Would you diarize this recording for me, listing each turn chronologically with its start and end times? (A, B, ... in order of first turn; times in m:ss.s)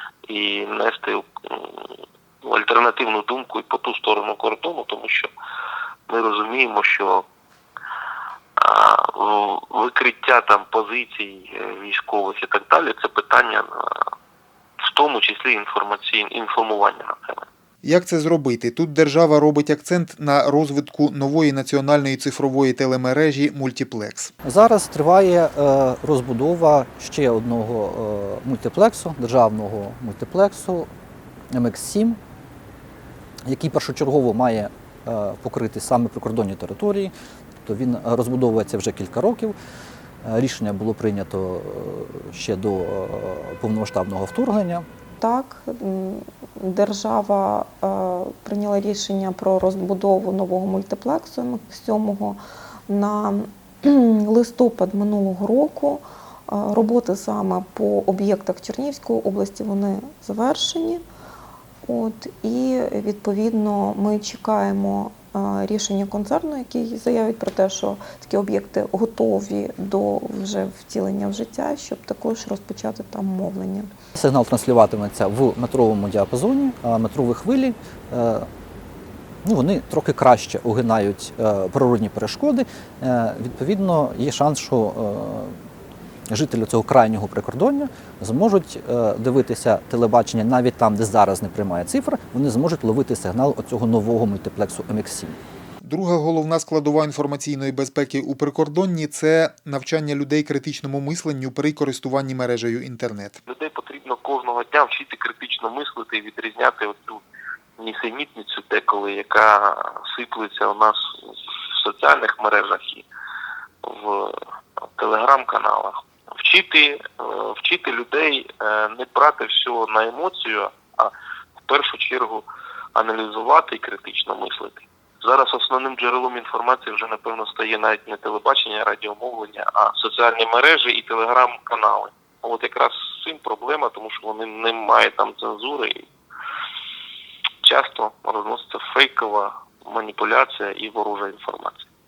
0:00.3-0:05.3 A
0:06.1-0:07.2 A
0:08.6-0:14.1 A
0:14.8-0:17.4 A
0:17.8-0:24.3 B
0:24.4-0:30.9 C
0:31.5-0:32.2 C
0:33.4-0:37.1 C
0:37.6-0:39.5 C
0:40.2-0:44.8 C
0:45.2-1:01.0 D
1:01.8-1:13.9 D
1:14.2-1:18.5 C
1:19.4-1:25.5 C
1:26.3-1:35.4 C
1:35.8-1:43.4 B
1:43.5-1:47.2 A
1:47.8-1:53.0 A
1:53.8-1:54.4 A
1:55.0-2:01.1 A
2:01.7-2:16.0 A
2:17.6-2:21.8 A